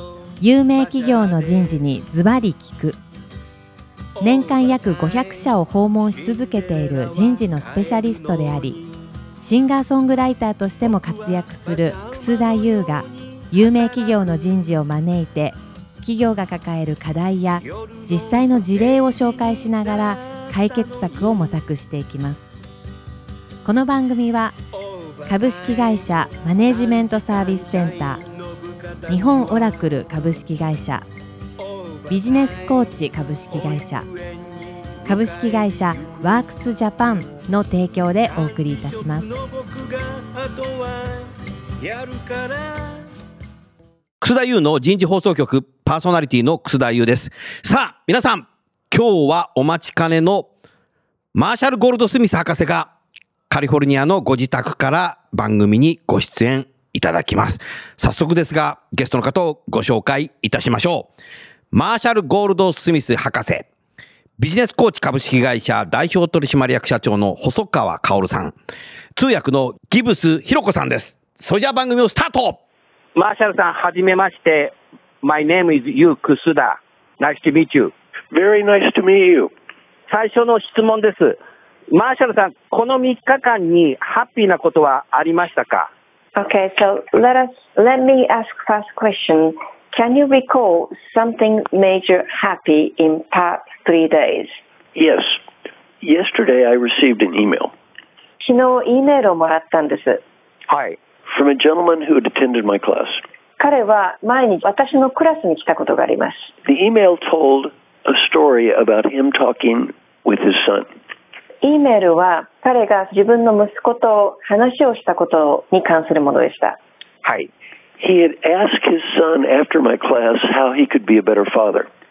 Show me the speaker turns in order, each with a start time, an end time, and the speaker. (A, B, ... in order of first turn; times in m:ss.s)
0:00.4-0:03.0 A
0:04.2-0:08.8 A
0:09.4-0:22.5 A
0:23.6-0:24.6 A
0:25.2-0:28.2 A
0:29.1-0:31.1 A
0:32.1-0:34.1 A
0:35.0-0:39.4 A
0:44.2-0:50.5 B
0:51.3-0:52.9 B
0:53.5-1:01.1 B
1:01.7-1:03.7 B
1:04.4-1:08.6 B
1:09.2-1:12.6 B
1:13.2-1:17.9 C
1:18.3-1:19.5 D
1:20.1-1:21.4 C
1:21.9-1:25.9 C
1:26.4-1:34.6 E
1:35.0-1:35.4 D
1:36.0-1:37.7 D
1:38.4-1:40.2 E
1:40.7-1:41.0 C
1:41.3-1:43.2 D
1:43.6-1:46.5 E
1:46.6-1:50.9 D
1:51.6-1:56.8 E
1:57.2-1:57.5 C
1:58.0-2:01.9 D